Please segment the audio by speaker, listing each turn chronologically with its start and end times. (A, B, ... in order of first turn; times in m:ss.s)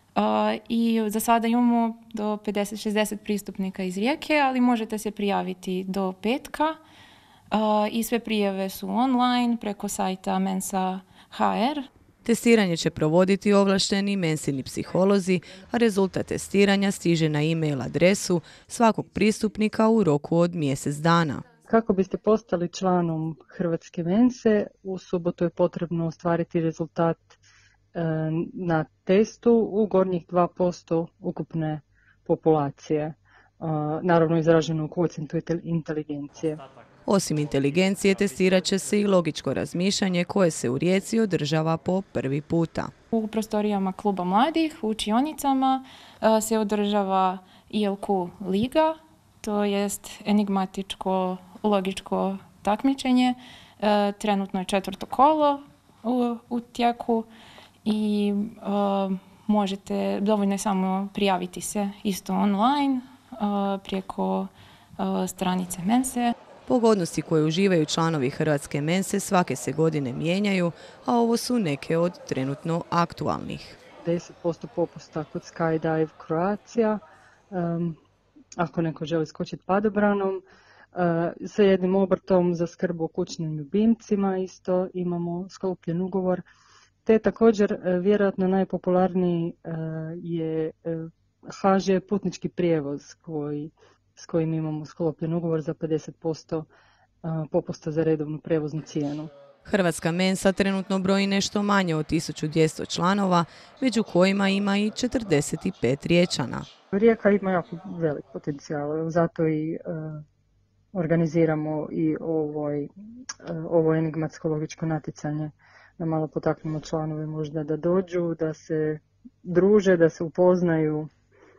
0:00.2-0:06.8 A
0:07.5-0:11.9 A
0:12.2-0:21.4 B
0:21.7-0:27.4 C
0:27.9-0:36.6 C
0:37.0-0:42.9 B
0:43.1-0:57.3 A
0:57.8-1:06.3 A
1:06.7-1:13.8 B
1:14.0-1:18.0 C
1:18.6-1:20.4 C
1:20.9-1:26.4 C
1:27.0-1:36.7 C
1:37.2-1:39.3 C
1:39.6-1:46.6 B
1:46.9-1:50.2 C
1:50.9-1:52.9 C
1:53.4-2:01.1 C